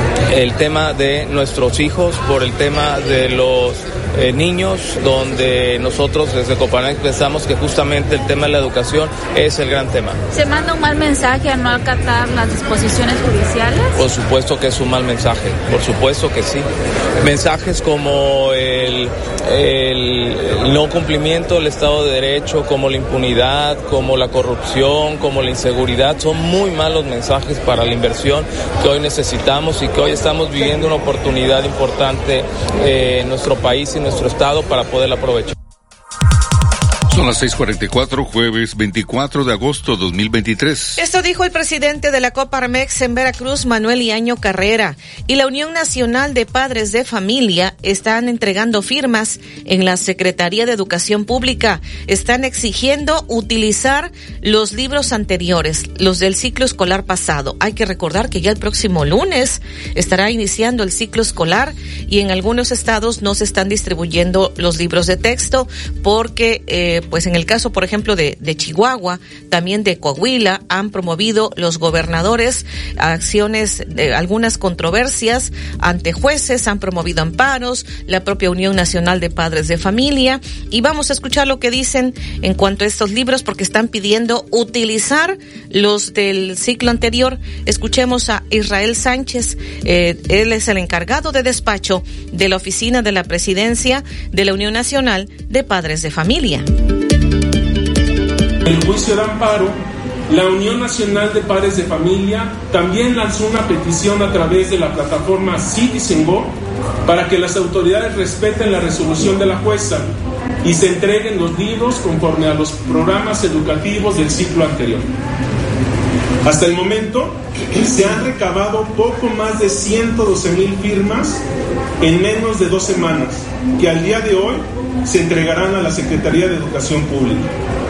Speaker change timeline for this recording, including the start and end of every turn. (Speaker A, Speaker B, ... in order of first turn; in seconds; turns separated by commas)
Speaker A: 0.3-10.2, Speaker B: 10.3-13.9, Speaker A: 13.9-16.6, Speaker A: 17.2-35.5, Speaker C: 37.1-41.0, Speaker D: 41.0-96.7, Speaker E: 98.6-106.5, Speaker E: 107.0-115.1, Speaker E: 116.4-121.4, Speaker E: 122.0-127.5